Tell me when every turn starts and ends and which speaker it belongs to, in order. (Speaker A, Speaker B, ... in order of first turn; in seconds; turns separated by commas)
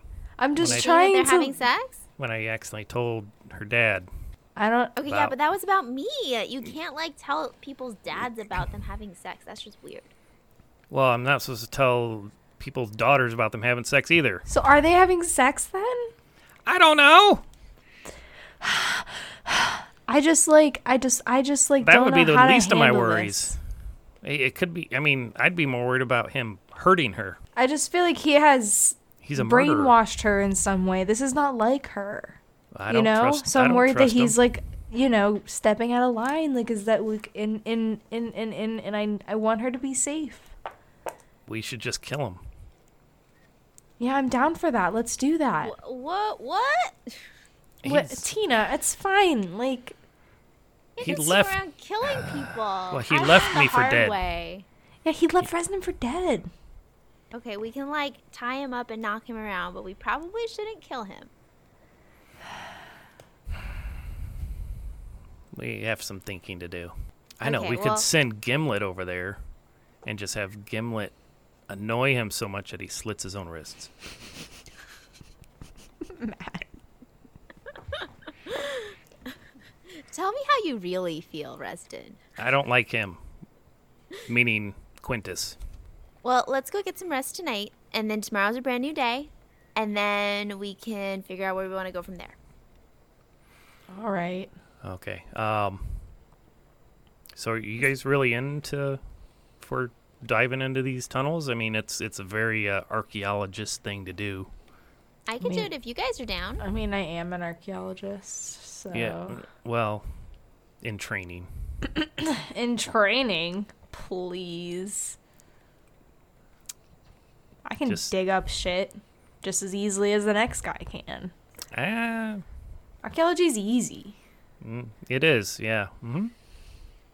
Speaker A: 0.4-1.6, Speaker B: 0.6-0.9, Speaker C: 0.6-2.0, Speaker B: 2.2-4.1, Speaker A: 4.5-5.0, Speaker C: 5.0-10.1, Speaker B: 5.1-5.3, Speaker B: 10.9-14.4, Speaker A: 14.4-16.1, Speaker B: 16.6-17.4, Speaker A: 18.6-23.5, Speaker B: 21.8-23.6, Speaker B: 24.2-27.4, Speaker A: 27.6-32.4, Speaker B: 29.2-29.9, Speaker B: 32.7-34.4, Speaker A: 32.9-40.5, Speaker B: 41.5-42.4, Speaker A: 44.0-45.7, Speaker C: 45.6-47.2, Speaker B: 47.8-48.2, Speaker A: 47.8-50.0, Speaker C: 51.0-54.6, Speaker B: 51.0-54.2, Speaker A: 55.0-56.5, Speaker C: 57.3-61.3, Speaker B: 65.5-69.4, Speaker C: 67.4-68.1, Speaker B: 70.0-71.1, Speaker B: 71.7-73.9, Speaker A: 76.1-76.7, Speaker C: 78.5-78.9, Speaker C: 80.1-82.2, Speaker B: 82.4-83.2, Speaker B: 84.2-85.6, Speaker C: 86.2-92.3, Speaker A: 93.9-94.5, Speaker B: 94.8-96.0, Speaker B: 97.3-99.0, Speaker B: 99.6-104.5, Speaker C: 105.3-106.6, Speaker A: 105.4-105.7, Speaker A: 106.6-109.4, Speaker B: 108.9-110.1, Speaker B: 110.8-111.5, Speaker A: 111.9-115.2, Speaker A: 117.6-121.3, Speaker B: 117.9-118.1, Speaker B: 121.7-122.4, Speaker A: 123.0-124.2, Speaker B: 124.6-126.3